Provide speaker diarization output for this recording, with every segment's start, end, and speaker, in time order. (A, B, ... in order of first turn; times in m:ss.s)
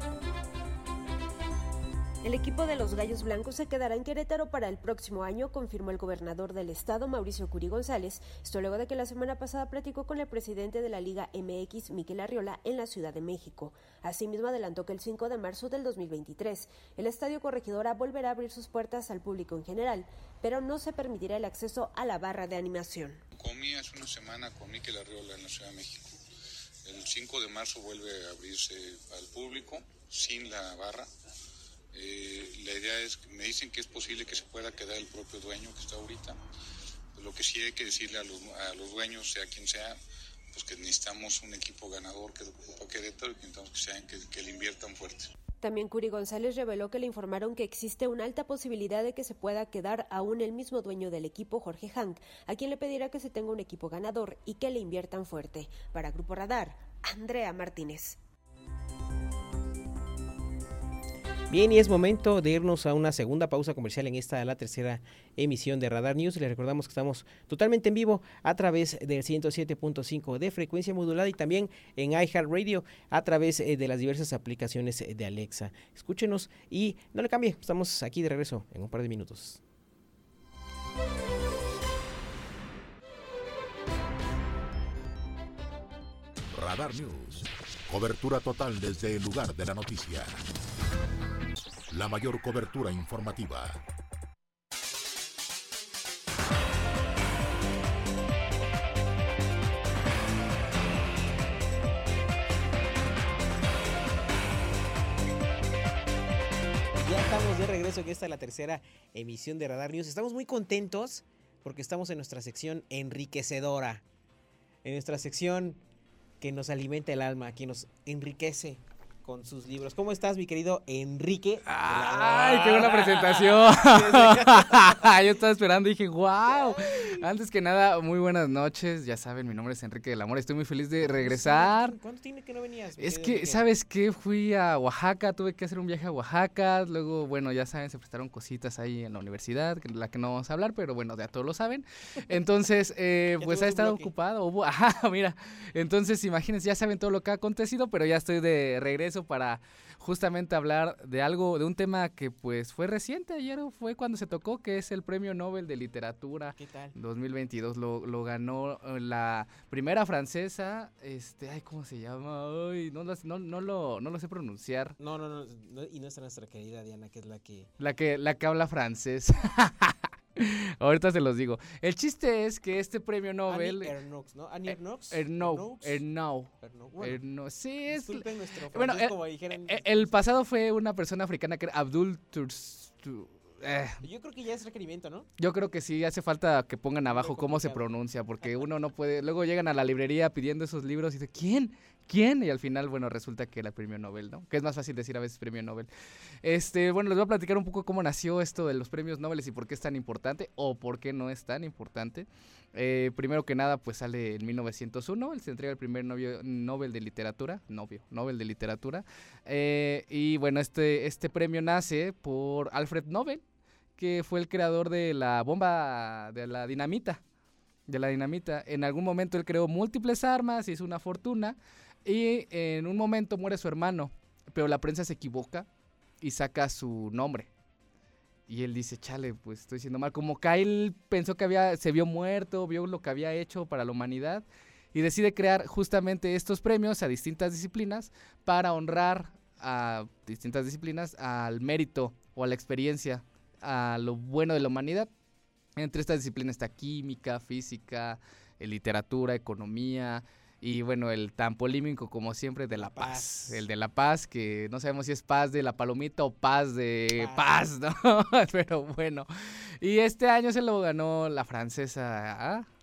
0:02.2-0:23.2 A
0:23.4-0:26.2 B
0:26.8-0:31.1 B
0:31.9-0:36.4 B
0:37.1-0:40.0 B
0:40.5-0:45.3 B
0:45.6-0:58.2 A
1:01.5-1:19.6 C
1:26.5-1:30.3 D
1:31.9-1:33.8 D
1:47.0-1:54.0 C
1:54.8-1:55.8 C
1:56.4-2:05.4 C
2:01.6-2:12.0 E
2:06.5-2:07.2 C
2:11.0-2:13.7 C
2:13.0-2:45.0 E
2:23.4-2:24.1 C
2:36.6-2:36.9 C
2:45.0-2:47.7 C
2:47.8-2:53.9 E
2:53.5-2:56.0 C
2:54.7-3:04.0 E
2:56.6-2:57.2 C
2:57.9-3:00.3 C
3:04.0-3:05.3 C
3:05.4-3:15.9 E
3:07.0-3:07.9 C
3:08.4-3:08.7 C
3:16.4-3:33.4 E
3:34.0-3:37.2 E
3:37.9-3:45.7 E
3:46.2-3:47.5 E
3:48.5-4:05.1 E
4:05.8-4:19.3 E
4:12.7-4:13.6 C
4:17.2-4:17.7 C
4:19.8-4:22.7 E